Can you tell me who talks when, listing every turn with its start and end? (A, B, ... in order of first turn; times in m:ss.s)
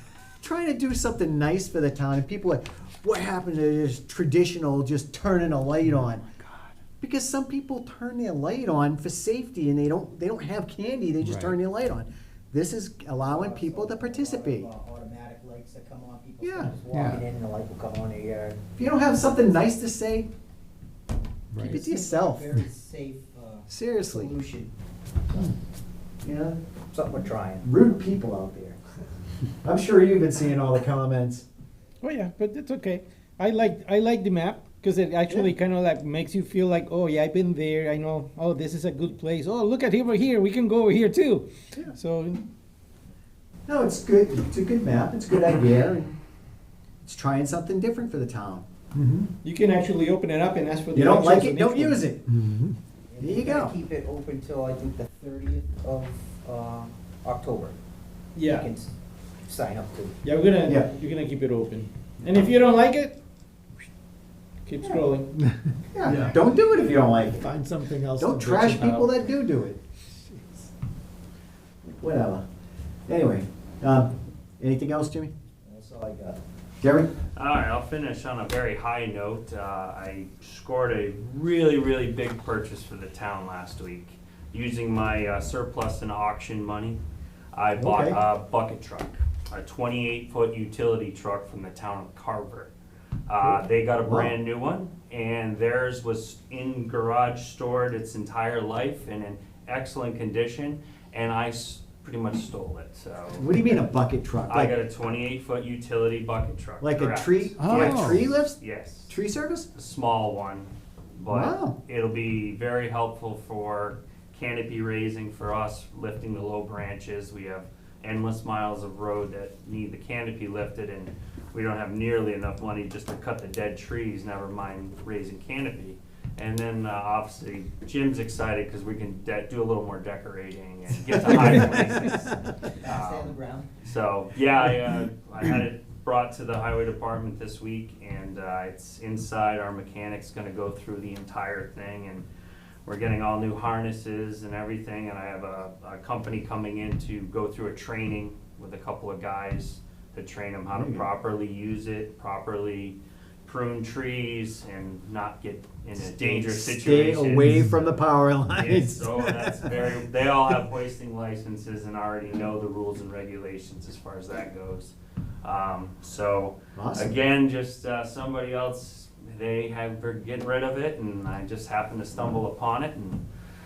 0:00.4-0:06.2 A
0:05.9-0:06.8 B
0:07.0-0:14.7 A
0:11.2-0:11.6 B
0:13.3-0:18.7 C
0:16.4-0:16.7 A
0:16.7-0:17.2 B
0:18.8-0:20.3 A
0:21.5-0:21.8 B
0:21.6-0:24.7 C
0:21.6-0:22.5 A
0:23.7-0:24.3 A
0:26.2-0:26.6 A
0:26.9-0:27.7 C
0:27.6-0:28.7 A
0:29.6-0:31.5 A
0:32.0-0:42.5 D
0:43.7-0:46.2 A
0:47.0-0:49.3 A
0:49.4-0:52.0 D
0:50.9-0:52.5 A
0:52.3-0:52.8 B
0:53.1-0:57.8 C
0:53.2-0:53.8 A
0:58.4-0:58.7 D
0:58.4-0:58.9 C
0:59.4-1:00.2 C
1:00.2-1:03.2 D
1:04.7-1:05.3 D
1:05.9-1:07.5 A
1:06.0-1:06.4 B
1:07.3-1:09.3 B
1:08.2-1:09.8 A
1:10.2-1:10.7 B
1:11.9-1:12.5 A
1:13.1-1:15.3 A
1:15.6-1:16.4 C
1:16.8-1:17.1 A
1:17.4-1:27.0 E
1:27.5-1:32.7 E
1:27.8-1:28.2 A
1:33.3-1:43.5 E
1:33.4-1:34.3 A
1:43.4-1:44.8 A
1:44.5-1:49.2 E
1:46.8-1:49.7 A
1:47.6-1:48.3 B
1:49.8-2:12.2 E
1:51.3-1:51.8 A
2:11.4-2:13.7 C
2:12.8-2:22.3 E
2:22.8-2:53.2 E
2:30.7-2:31.1 A
2:36.0-2:39.9 A
2:46.8-2:47.2 A
2:52.2-2:52.4 A